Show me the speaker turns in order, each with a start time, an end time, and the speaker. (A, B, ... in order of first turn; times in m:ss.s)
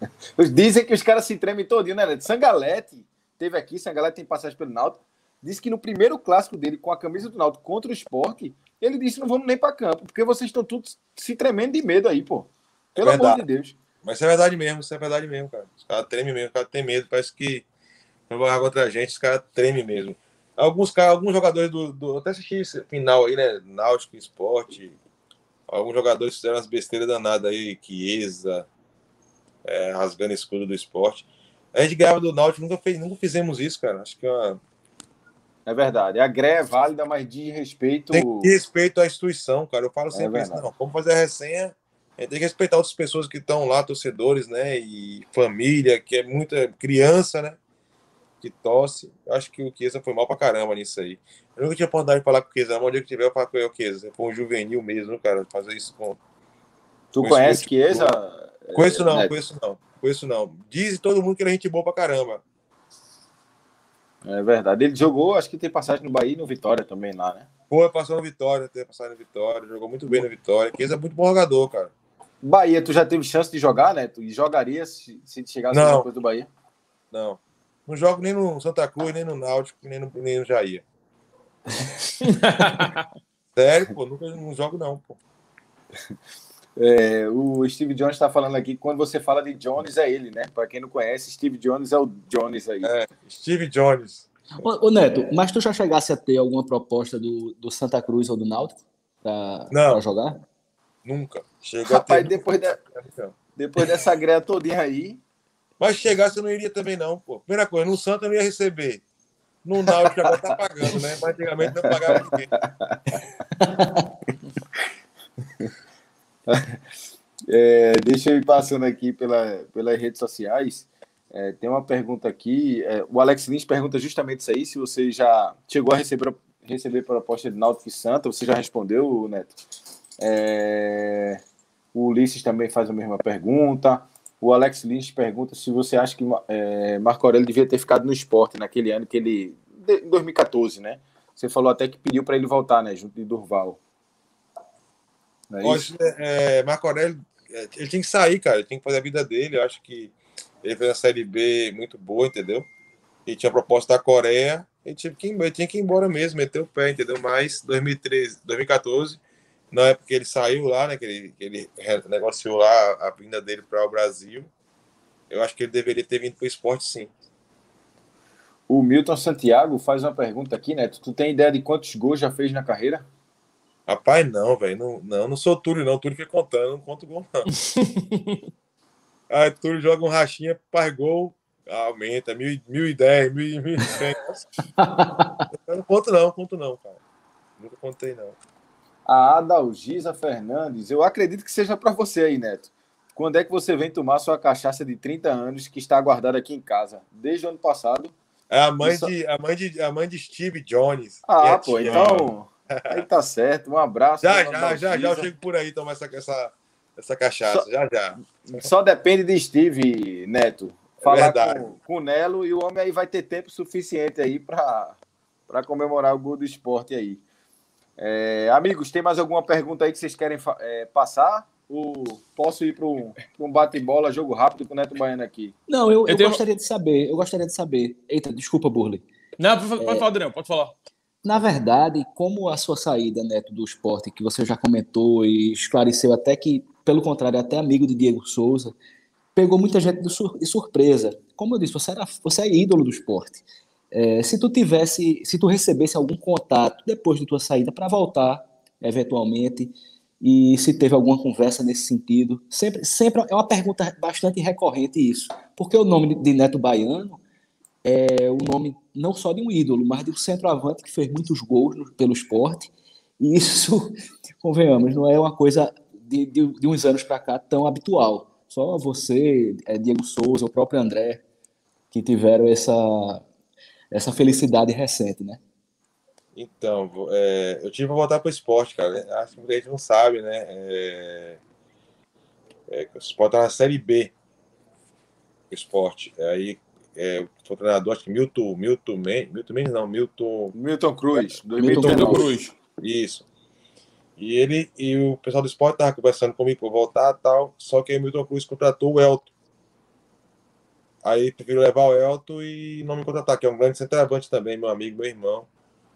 0:00.4-0:13.7 A
0:13.0-0:13.4 B
0:14.0-0:17.6 B
0:18.3-0:25.0 B
0:25.7-0:28.6 B
0:29.6-0:34.6 B
0:35.6-0:38.5 A
0:38.1-0:47.6 B
0:40.1-0:40.6 A
0:48.4-0:56.2 B
0:57.1-0:59.3 A
0:57.2-0:58.1 B
0:58.7-1:02.4 B
1:04.2-1:07.5 A
1:07.7-1:11.9 B
1:12.4-1:16.5 A
1:15.7-1:16.1 B
1:17.1-1:20.8 B
1:22.2-1:23.0 C
1:23.6-1:25.2 B
1:26.8-1:32.9 A
1:32.8-1:34.3 B
1:34.6-1:40.4 D
1:39.7-1:40.0 B
1:41.0-1:43.3 B
1:41.8-1:42.8 A
1:43.6-1:45.2 A
1:45.8-1:49.0 B
1:49.6-1:52.5 B
1:49.9-1:50.4 A
1:51.6-1:53.0 A
1:53.6-1:53.9 D
1:56.5-1:56.8 A
1:57.5-2:09.6 A
2:10.2-2:11.4 A
2:11.9-2:23.8 A
2:25.5-2:25.9 A
2:25.6-2:32.6 B
2:33.2-2:44.5 B
2:45.3-2:47.1 B
2:48.7-2:53.0 A
2:53.9-2:57.5 B
2:57.7-2:58.4 C
2:59.3-3:04.5 B
3:04.8-3:05.4 D
3:05.5-3:07.0 B
3:07.6-3:08.4 B
3:09.1-3:18.1 A
3:18.5-3:23.0 B
3:18.8-3:19.1 A
3:21.2-3:25.3 A
3:24.2-3:28.2 B
3:28.4-3:35.0 A
3:31.0-3:31.7 B
3:35.5-3:37.2 A
3:38.0-3:45.5 A
3:45.7-3:49.0 D
3:46.1-3:46.4 C
3:49.4-3:50.7 C
3:49.8-3:50.0 D
3:51.2-3:58.7 D
3:59.3-4:17.2 D
4:17.8-4:31.2 D
4:31.9-4:33.2 D
4:33.9-4:35.4 D
4:36.3-4:41.4 B
4:42.7-4:44.1 B
4:45.5-4:50.5 B
4:50.5-4:52.3 A
4:51.6-4:52.3 D
4:51.6-4:52.5 C
4:52.8-4:53.2 B
4:54.2-4:59.3 B
5:01.0-5:05.5 B